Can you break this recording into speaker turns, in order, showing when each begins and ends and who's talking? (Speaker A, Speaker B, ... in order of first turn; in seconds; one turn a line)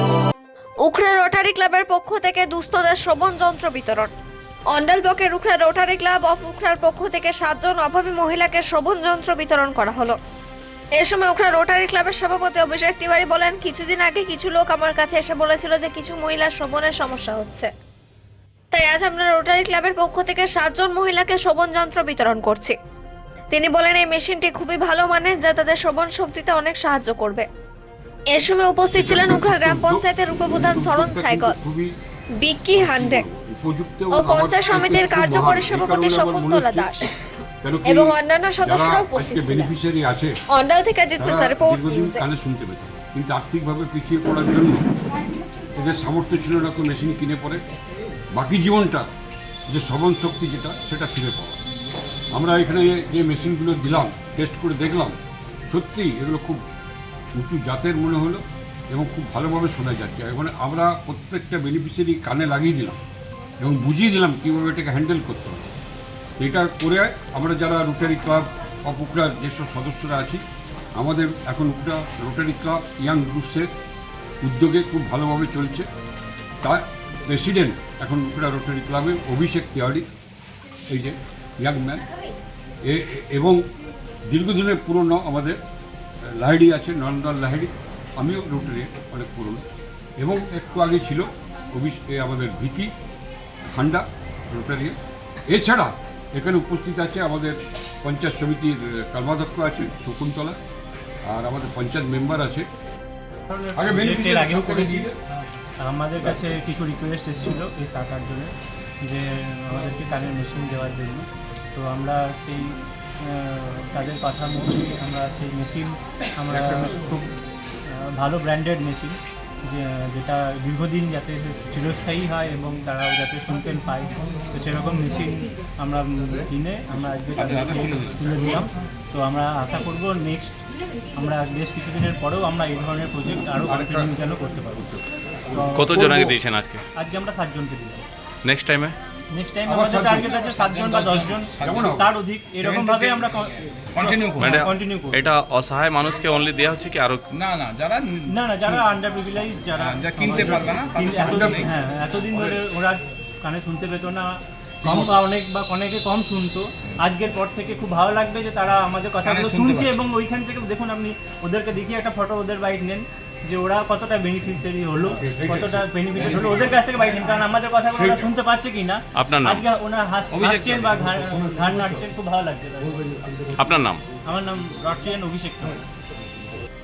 Speaker A: 0.8-4.1
Speaker A: 4.7-10.2
Speaker A: 11.0-17.7
Speaker A: 18.7-22.8
Speaker A: 23.5-27.4
Speaker A: 28.3-31.5
Speaker B: 28.9-31.9
Speaker A: 32.4-33.2
Speaker B: 32.7-37.0
Speaker A: 34.2-37.0
Speaker B: 37.6-40.3
Speaker A: 37.9-39.7
Speaker A: 40.5-42.2
Speaker B: 41.2-44.9
Speaker B: 45.8-47.6
Speaker B: 48.4-49.0
Speaker B: 49.7-51.6
Speaker B: 52.3-55.2
Speaker B: 55.7-56.6
Speaker B: 57.4-63.0
Speaker B: 63.6-65.7
Speaker B: 66.4-70.4
Speaker B: 71.0-73.7
Speaker B: 74.4-75.9
Speaker B: 76.6-80.1
Speaker B: 80.9-82.0
Speaker B: 82.9-83.6
Speaker B: 84.3-85.6
Speaker B: 86.4-89.6
Speaker B: 90.2-92.9
Speaker B: 93.8-95.0
Speaker B: 95.5-100.6
Speaker B: 101.3-102.7
Speaker C: 103.5-105.1
Speaker B: 103.8-105.1
Speaker C: 105.8-108.5
Speaker C: 109.0-117.3
Speaker C: 117.9-130.6
Speaker D: 127.3-128.7
Speaker C: 131.2-136.4
Speaker B: 133.7-134.1
Speaker E: 135.7-136.8
Speaker C: 136.9-138.0
Speaker E: 138.4-139.0
Speaker C: 139.3-145.2
Speaker B: 139.7-140.3
Speaker D: 140.1-142.0
Speaker B: 141.6-142.0
Speaker D: 142.6-143.3
Speaker D: 143.9-144.6
Speaker E: 144.4-147.2
Speaker D: 147.3-148.8
Speaker C: 148.3-154.3
Speaker D: 149.8-152.6
Speaker B: 151.2-151.7
Speaker C: 154.8-173.1
Speaker D: 159.2-160.1
Speaker B: 165.2-165.7
Speaker B: 166.2-166.6
Speaker E: 169.2-169.6
Speaker E: 170.3-170.8
Speaker E: 173.6-174.0
Speaker C: 174.3-175.8